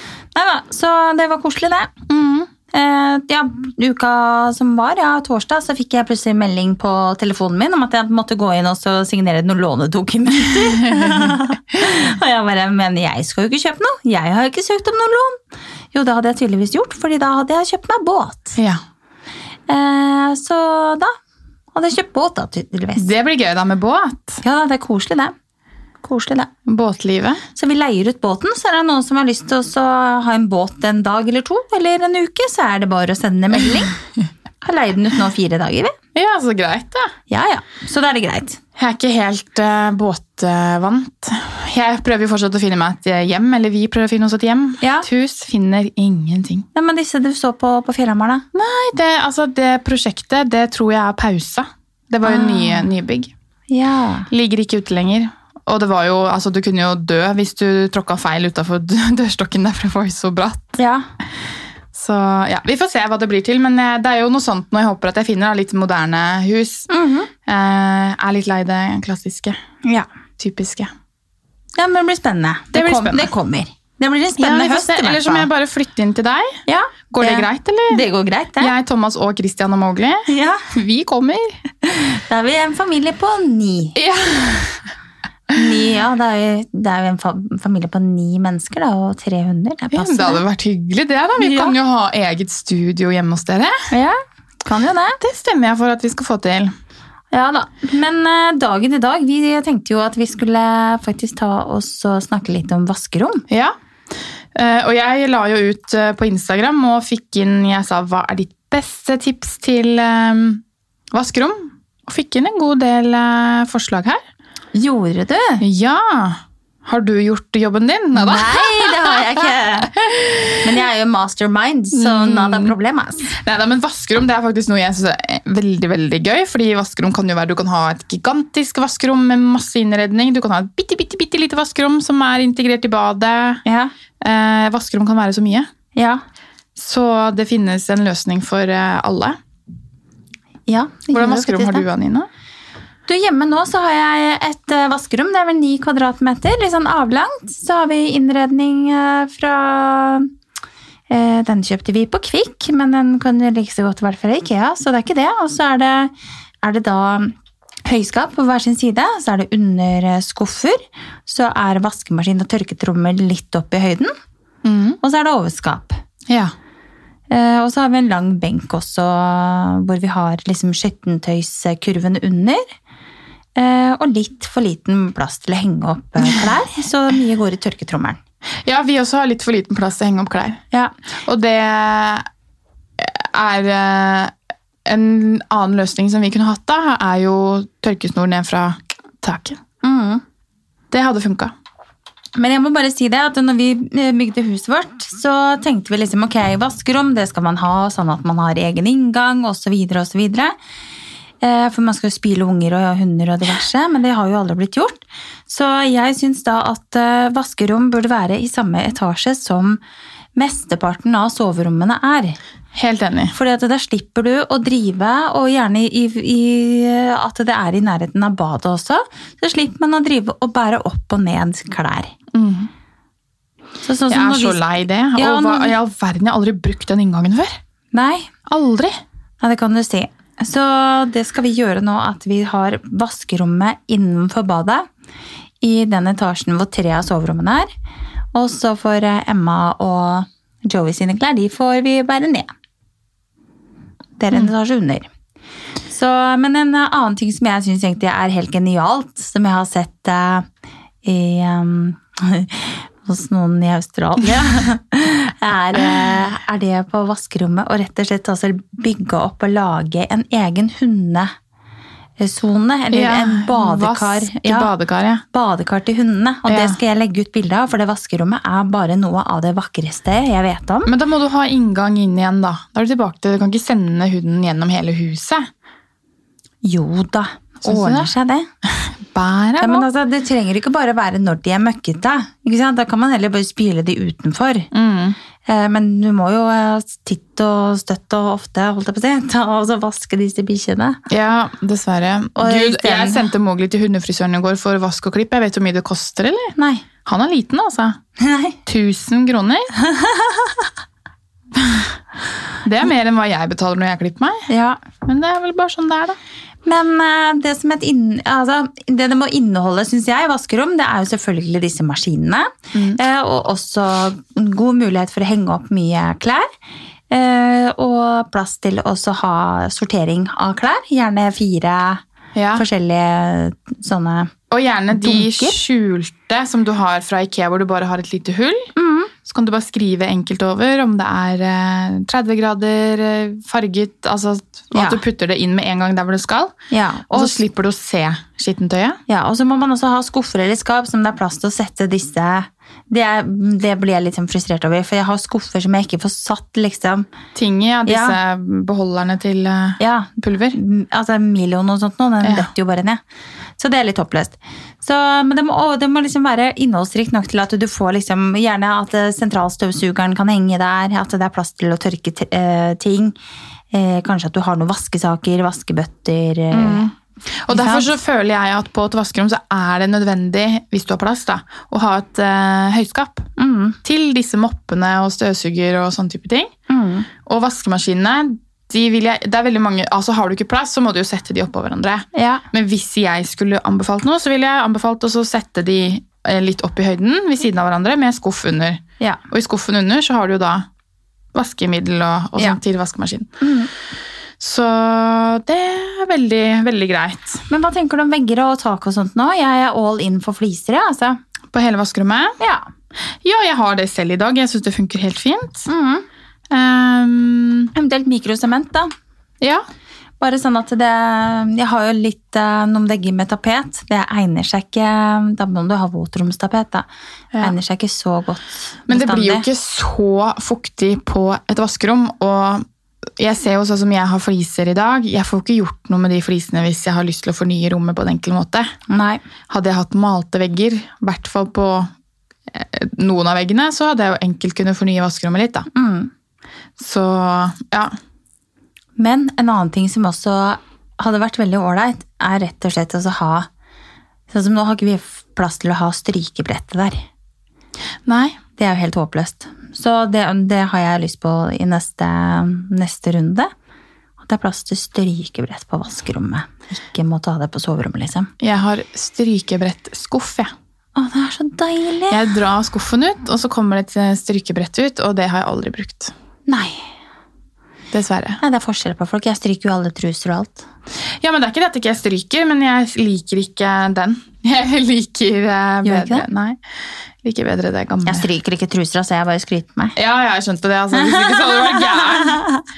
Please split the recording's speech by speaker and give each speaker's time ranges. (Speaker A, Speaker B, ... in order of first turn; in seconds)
Speaker A: 0.3-1.9, 2.7-15.4, 15.9-18.6, 19.7-21.1, 21.7-23.1, 24.4-25.3, 26.0-26.5, 27.5-33.9, 34.6-35.9, 37.3-38.6, 44.8-45.0, 46.7-48.4, 52.2-52.9, 53.7-54.3, 60.8-61.0, 66.9-67.3, 71.8-75.5, 76.7-78.7, 80.3-80.6, 81.8-84.0, 85.5-90.4, 91.4-91.8, 93.9-95.2, 97.3-103.4, 114.7-115.6, 118.1-119.9, 120.6-123.3, 133.6-133.9, 135.9-136.2, 140.7-141.8, 143.1-150.3, 151.1-157.3, 157.8-164.1, 165.0-166.0, 167.3-172.6, 173.6-178.2, 189.8-190.2, 192.3-200.5, 201.4-209.8, 210.3-212.4, 213.3-222.1, 223.8-225.7, 227.9-228.3, 229.4-234.8, 235.6-237.7, 238.3-242.5, 244.2-245.1, 245.9-250.4, 251.0-261.3, 262.2-264.7, 265.3-270.9, 276.6-278.5, 279.6-284.7, 285.4-291.0, 292.4-293.2, 296.6-296.9, 298.2-298.6, 299.8-300.7, 304.5-304.8, 306.6-316.4, 317.1-322.0, 322.6-324.3, 324.9-325.6, 328.8-329.1, 334.7-335.0, 336.7-337.4, 339.1-347.1, 347.9-348.2, 349.8-353.0, 353.6-363.1, 363.7-366.8, 367.5-367.9, 373.4-373.8, 376.7-377.1, 382.1-382.4, 393.4-393.7, 397.5-401.2, 402.4-402.6, 405.7-406.1, 407.7-408.9, 410.2-416.9, 417.4-419.4, 428.9-429.2, 435.7-436.1, 439.0-443.5, 444.3-447.0, 448.6-453.5, 454.2-458.3, 460.9-462.2, 466.5-466.8, 468.4-470.7, 475.8-476.2, 478.1-479.9, 480.9-482.6
Speaker B: 2.1-2.5, 22.9-24.4, 26.7-27.4, 36.1-37.1, 38.8-46.6, 48.5-53.3, 54.3-60.8, 61.9-66.9, 67.5-69.5, 70.4-70.9, 72.7-73.3, 74.4-76.6, 77.1-78.0, 78.6-81.6, 84.0-84.8, 89.9-93.8, 95.2-96.7, 104.5-110.6, 111.1-114.2, 115.6-119.1, 120.1-120.4, 122.0-122.7, 123.4-133.6, 134.2-135.7, 136.8-139.4, 141.1-142.3, 164.6-165.0, 178.7-180.6, 181.2-182.2, 183.0-184.3, 184.8-189.6, 190.9-191.5, 212.7-213.3, 222.3-222.7, 224.1-227.6, 228.5-228.9, 262.9-265.2, 266.5-266.8, 270.9-275.4, 277.6-278.1, 279.1-279.9, 284.7-285.2, 291.1-298.0, 298.6-299.7, 302.6-304.4, 305.0-306.1, 312.7-313.0, 322.3-322.6, 324.5-328.7, 329.2-336.5, 337.1-339.0, 347.3-350.6, 352.2-352.5, 366.5-366.9, 367.4-373.3, 373.8-376.5, 377.2-390.6, 391.3-393.3, 394.4-397.4, 401.5-402.4, 403.2-405.7, 406.5-407.7, 418.9-422.6, 423.2-428.7, 429.5-431.9, 432.5-435.7, 436.8-437.9, 448.1-448.4, 458.4-460.5, 462.1-466.1, 467.9-468.4, 471.2-476.6, 477.2-478.3, 479.9-482.4